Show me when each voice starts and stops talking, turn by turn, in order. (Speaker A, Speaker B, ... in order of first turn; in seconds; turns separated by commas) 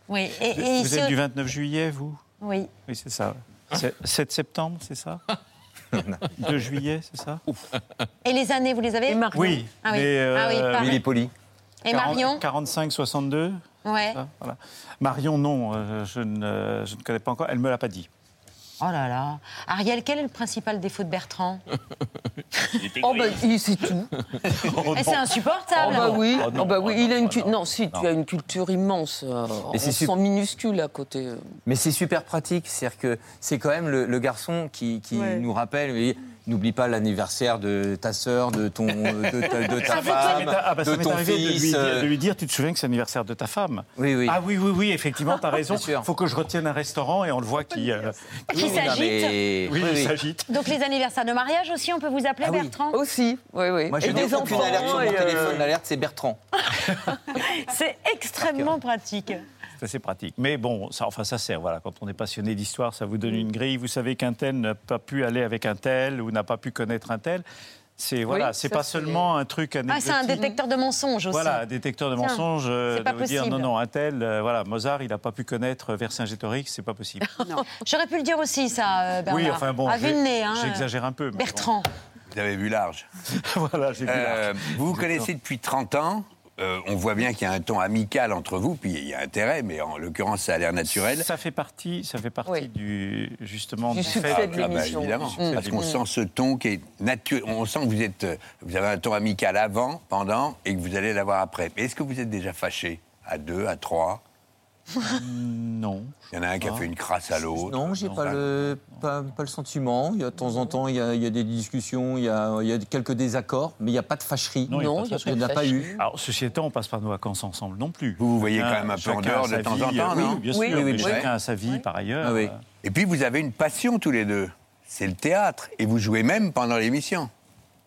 Speaker A: 0.1-1.1, Speaker B: 0.5-2.2, Speaker A: 2.4-2.7, Speaker B: 2.9-5.2, Speaker B: 6.4-7.4, Speaker A: 8.2-11.0, Speaker C: 9.1-9.6, Speaker B: 9.3-11.0, Speaker D: 10.8-11.3, Speaker A: 11.8-12.4, Speaker B: 11.9-13.6, Speaker A: 13.8-14.2, Speaker B: 14.1-18.1, Speaker A: 18.8-21.6, Speaker C: 23.0-24.1, Speaker B: 24.6-25.2, Speaker A: 24.9-26.4, Speaker C: 25.8-31.4, Speaker B: 25.8-27.2, Speaker D: 29.7-30.1, Speaker D: 31.6-42.1, Speaker B: 39.7-49.0, Speaker A: 39.9-40.4, Speaker D: 44.0-44.4, Speaker D: 45.7-46.1, Speaker D: 48.5-50.1, Speaker A: 48.5-49.4, Speaker B: 49.6-50.5, Speaker A: 50.5-53.0, Speaker D: 52.4-52.7, Speaker C: 52.9-55.7, Speaker D: 53.9-56.4, Speaker B: 54.0-55.6, Speaker A: 57.3-59.4, Speaker B: 59.8-67.4, Speaker B: 68.0-70.5, Speaker A: 69.9-71.6, Speaker B: 71.3-77.3, Speaker A: 72.2-73.7, Speaker A: 77.7-81.9, Speaker B: 79.3-81.7, Speaker E: 82.3-83.1, Speaker B: 83.4-85.3, Speaker E: 84.0-91.3, Speaker B: 90.9-95.9, Speaker C: 93.9-96.0, Speaker E: 94.2-104.2, Speaker B: 105.0-106.9, Speaker E: 106.3-107.9, Speaker D: 107.5-116.0, Speaker B: 107.9-108.9, Speaker B: 114.7-122.6, Speaker C: 114.7-116.0, Speaker E: 118.2-121.3, Speaker C: 120.5-121.2, Speaker D: 120.7-121.1, Speaker D: 122.2-122.5, Speaker E: 122.8-127.3